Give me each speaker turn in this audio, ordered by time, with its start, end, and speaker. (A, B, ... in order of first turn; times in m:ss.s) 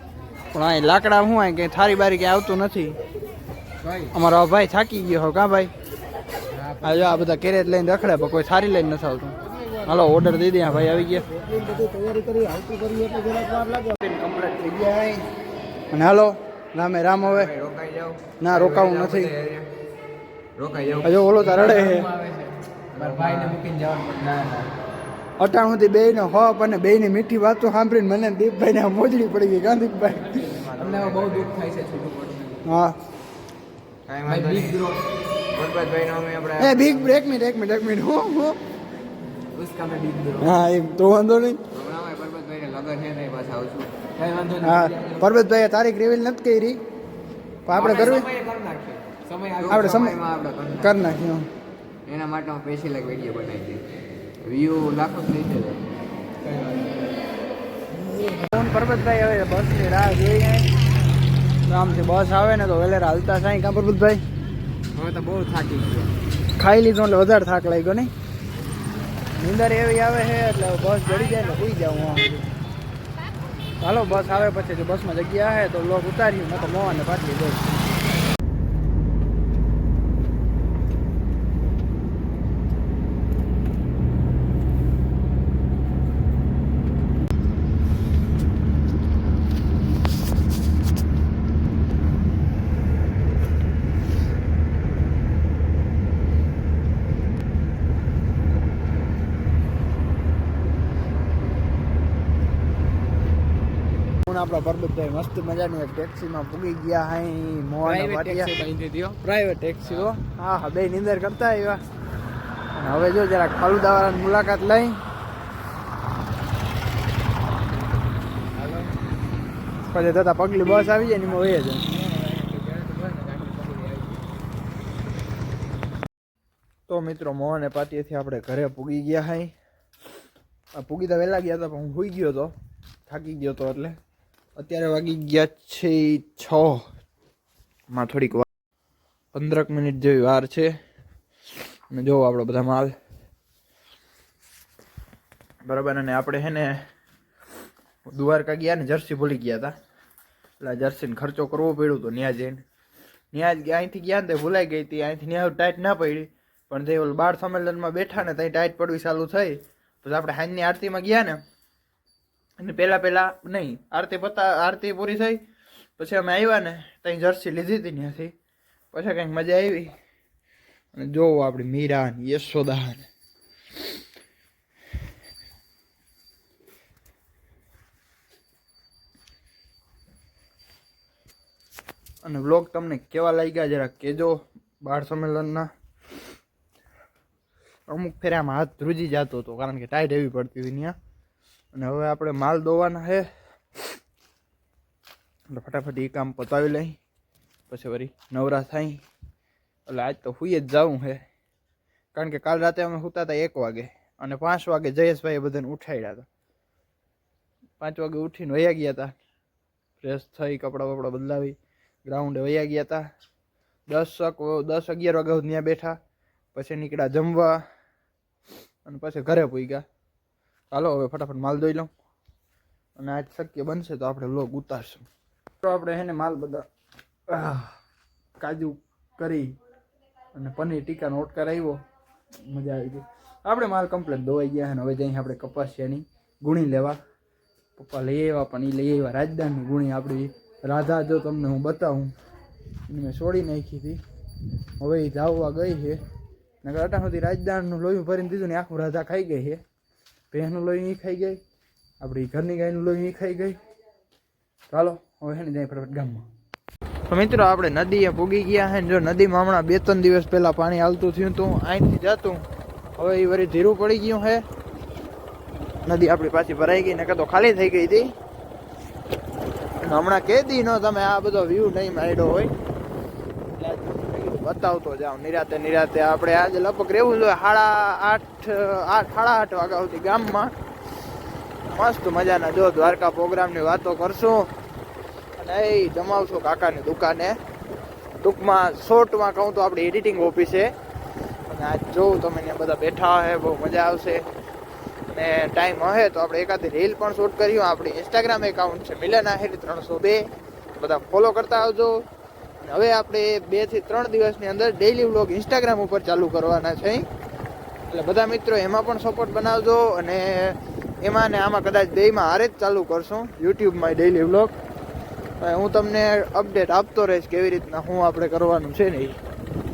0:00.5-0:03.0 A
0:04.1-0:05.7 A
0:06.8-0:15.3 A
0:15.9-0:17.5 A
0:17.2-0:19.7 B
0:18.4-0:19.4 A
0:20.6-0:24.7 B
0:21.0-0:22.2 A
0:25.4-0:30.7 A
0:30.4-0:32.6 B
0:32.6-0:33.0 A
0:34.1-0:37.2 B
0:36.6-0:38.6 A
0:39.5-0:40.5 B
0:40.4-0:41.6 A
0:41.7-0:45.2 B
0:44.6-0:46.8 A
0:47.6-0:48.3 A
0:47.7-0:51.1 B
0:49.6-0:50.2 A
0:50.8-0:51.5 A
0:52.0-0:53.9 B
0:54.4-0:55.8 B
0:56.5-0:56.8 B
0:58.5-1:00.7 A
1:01.7-1:04.2 A
1:04.9-1:06.1 B
1:06.6-1:08.1 A
1:09.4-1:12.5 A
1:13.8-1:17.6 A
1:44.3-1:48.6 A
1:47.8-1:49.2 B
1:49.2-1:51.8 A
1:52.8-1:55.0 A
1:58.6-1:58.9 B
1:59.9-2:02.0 A
2:01.9-2:04.2 B
2:06.9-2:09.5 A
2:10.7-2:12.5 A
2:13.1-2:14.0 A
2:14.6-2:16.8 A
2:17.9-2:18.5 A
2:19.3-2:20.7 A
2:21.9-2:22.9 A
2:25.6-2:26.8 A
2:28.1-2:29.8 A
2:30.6-2:32.6 A
2:33.3-2:41.4 A
2:42.6-2:45.4 A
2:46.0-2:48.3 A
2:48.9-2:50.0 A
2:50.9-2:53.1 A
3:02.2-3:05.7 A
3:07.9-3:11.0 A
3:11.7-3:13.3 A
3:15.5-3:17.0 A
3:17.7-3:19.0 A
3:19.9-3:21.2 A
3:22.1-3:26.3 A
3:27.8-3:29.1 A
3:30.0-3:33.0 A
3:33.9-3:36.0 A
3:36.5-3:37.6 A
3:38.8-3:39.8 A
3:40.7-3:41.9 A
3:43.0-3:45.0 A
3:45.6-3:46.7 A
3:47.3-3:47.8 A
3:48.4-3:49.5 A
3:50.3-3:51.8 A
3:52.5-3:57.0 A
3:57.8-4:02.1 A
4:02.9-4:04.0 A
4:04.8-4:06.0 A
4:06.6-4:09.6 A
4:10.3-4:11.4 A
4:12.0-4:13.6 A
4:14.7-4:16.3 A
4:17.1-4:22.4 A
4:23.0-4:24.4 A
4:25.8-4:28.1 A
4:29.8-4:32.5 A
4:33.6-4:40.5 A
4:41.7-4:44.5 A
4:45.4-4:47.4 A
4:48.2-4:50.7 A
4:51.5-4:54.2 A
4:55.1-5:02.0 A
5:02.6-5:07.1 A
5:07.9-5:14.6 A
5:15.4-5:19.2 A